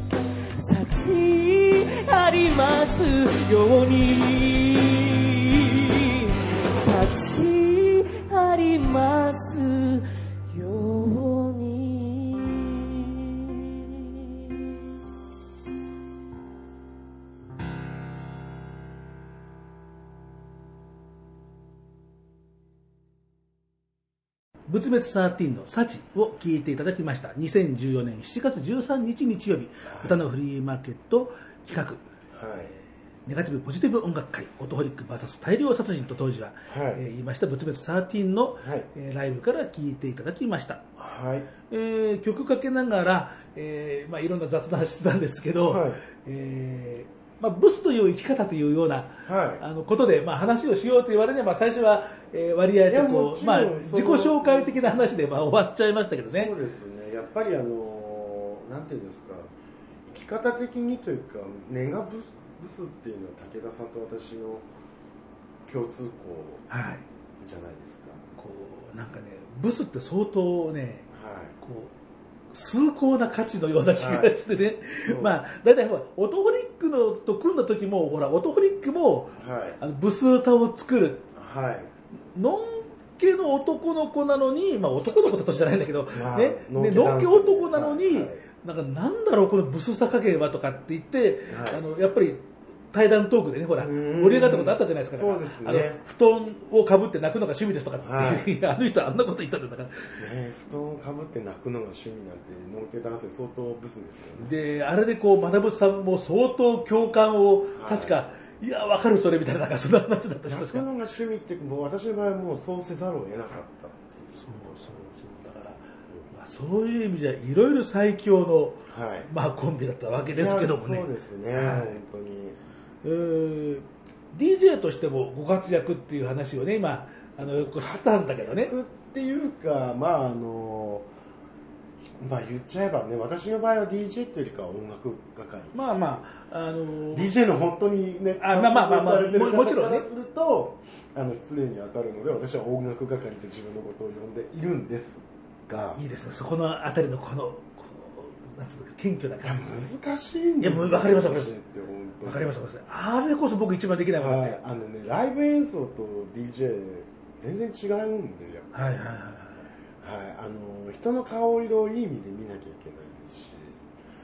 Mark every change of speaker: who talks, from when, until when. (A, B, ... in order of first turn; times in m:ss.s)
0:00.6-0:14.5 A
0:24.7-0:32.0 B
0:29.9-0:30.2 C
0:32.3-0:32.7 C
0:33.3-0:40.9 B
0:36.7-0:37.0 C
0:38.6-0:38.9 C
0:41.0-0:41.5 C
0:41.7-0:56.5 B
0:45.6-0:46.0 C
0:49.3-0:49.6 C
0:52.9-0:55.1 C
0:56.3-0:59.5 C
1:00.0-1:04.7 C
1:05.7-1:06.6 C
1:06.7-1:07.0 B
1:07.4-1:08.3 C
1:08.4-1:11.1 B
1:11.1-1:11.6 C
1:11.6-1:11.9 B
1:12.5-1:21.3 B
1:14.0-1:14.4 C
1:15.0-1:15.4 C
1:19.4-1:19.8 C
1:21.3-1:21.9 C
1:22.4-1:40.2 B
1:26.1-1:28.4 C
1:31.5-1:31.8 C
1:33.8-1:36.0 C
1:38.0-1:38.5 C
1:40.2-1:44.5 C
1:44.4-1:50.9 B
1:47.8-1:48.2 C
1:50.5-1:54.8 C
1:54.4-2:02.0 B
1:58.9-1:59.3 C
2:00.3-2:02.6 C
2:03.0-2:08.7 B
2:07.4-2:11.1 C
2:12.0-2:16.2 C
2:15.7-2:17.3 B
2:17.1-2:26.0 C
2:18.4-2:20.1 B
2:26.0-2:29.9 B
2:29.4-2:32.5 C
2:30.6-2:31.5 B
2:32.2-2:34.6 B
2:34.2-2:39.2 C
2:38.7-2:39.7 B
2:40.0-2:43.8 C